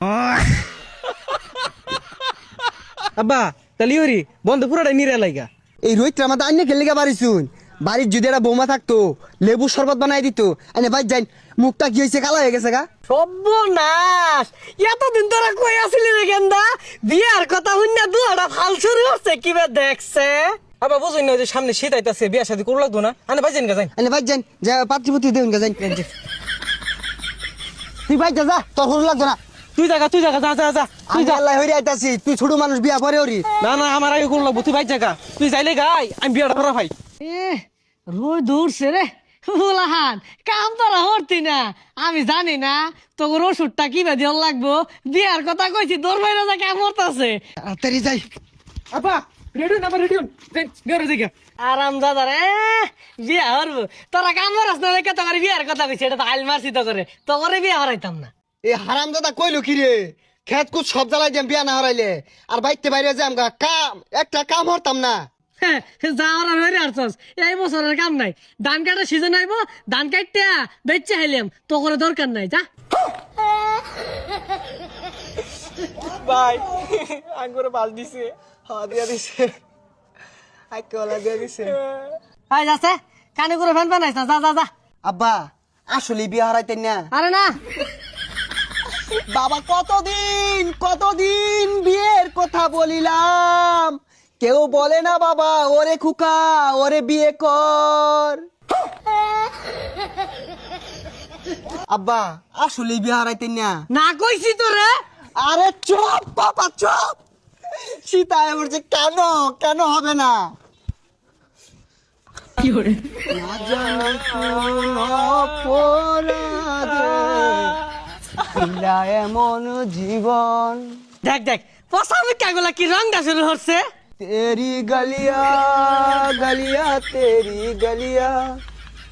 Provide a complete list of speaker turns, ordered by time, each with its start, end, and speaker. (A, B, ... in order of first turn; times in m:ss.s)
0:03.2-0:05.5 A
0:05.8-0:12.8 B
0:13.1-0:20.6 C
0:20.8-0:23.9 A
0:24.0-0:25.8 B
0:25.8-0:26.1 A
0:28.1-0:29.4 B
0:29.8-0:31.4 A
0:31.1-0:33.5 B
0:33.6-0:36.9 A
0:37.2-0:47.4 C
0:47.6-0:48.3 B
0:48.9-0:51.3 A
0:51.6-0:58.3 C
0:58.6-1:05.2 B
1:05.6-1:12.6 C
1:16.2-1:18.3 A
1:18.7-1:19.5 B
1:20.7-1:21.8 B
1:22.5-1:24.7 C
1:25.0-1:27.1 B
1:27.1-1:27.5 C
1:29.3-1:38.4 B
1:41.9-1:43.7 B
1:43.9-1:44.9 C
1:45.4-1:47.2 B
1:47.9-1:50.5 B
1:52.6-1:52.9 C
1:53.3-1:57.8 B
1:58.5-2:01.0 B
2:01.2-2:03.8 C
2:04.2-2:08.6 B